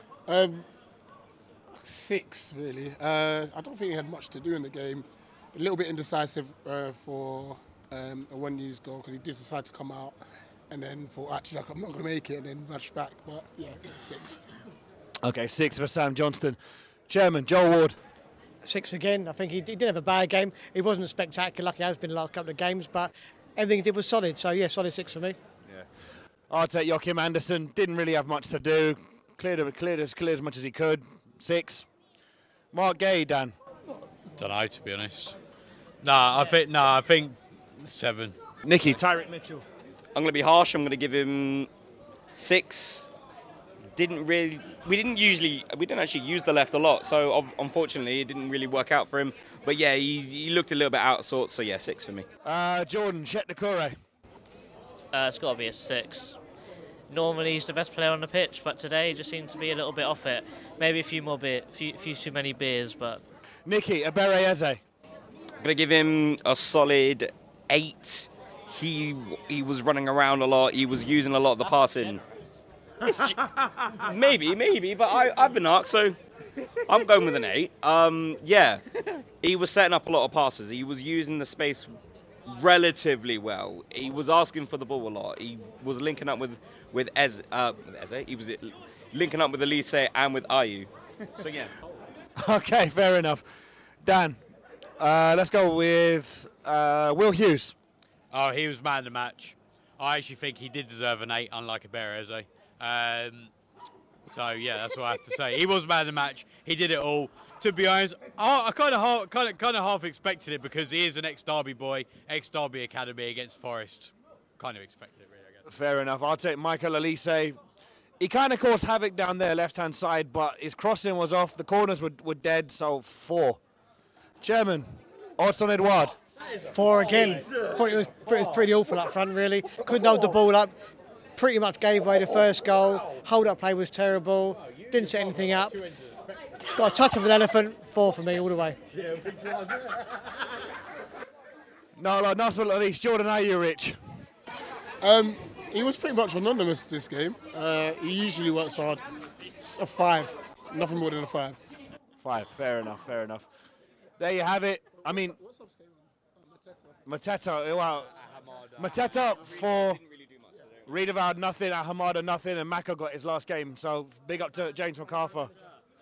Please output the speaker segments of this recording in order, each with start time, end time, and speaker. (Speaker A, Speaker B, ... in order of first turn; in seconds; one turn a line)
Speaker A: 0.3-0.7
Speaker A: 1.7-10.2
Speaker A: 10.7-14.4
Speaker B: 15.2-18.0
Speaker C: 18.6-25.4
Speaker B: 26.5-31.9
Speaker B: 32.7-33.5
Speaker D: 34.4-35.4
Speaker D: 36.0-38.4
Speaker B: 38.6-39.7
Speaker E: 40.1-41.7
Speaker E: 42.3-43.1
Speaker E: 44.0-52.2
Speaker B: 52.5-54.0
Speaker F: 55.1-56.4
Speaker F: 57.1-63.2
Speaker B: 63.6-64.8
Speaker E: 65.6-72.2
Speaker E: 73.0-73.4
Speaker E: 74.0-76.2
Speaker E: 76.9-82.0
Speaker E: 82.5-91.7
Speaker B: 92.4-94.4
Speaker B: 95.0-97.8
Speaker D: 98.3-103.5
Speaker D: 104.3-115.6
Speaker B: 115.7-117.6
Speaker B: 118.2-123.6
Speaker B: 124.4-126.2
Speaker C: 126.7-130.8
Speaker C: 131.3-135.8
Speaker C: 136.6-138.8
Speaker B: 142.0-144.3
Speaker A: 145.0-151.6
Speaker B: 152.2-153.5
Speaker B: 154.2-155.4
Speaker A: 155.3-156.9
Speaker B: 157.1-158.1
Speaker B: 158.8-160.0
Speaker E: 159.4-160.8
Speaker B: 160.9-165.5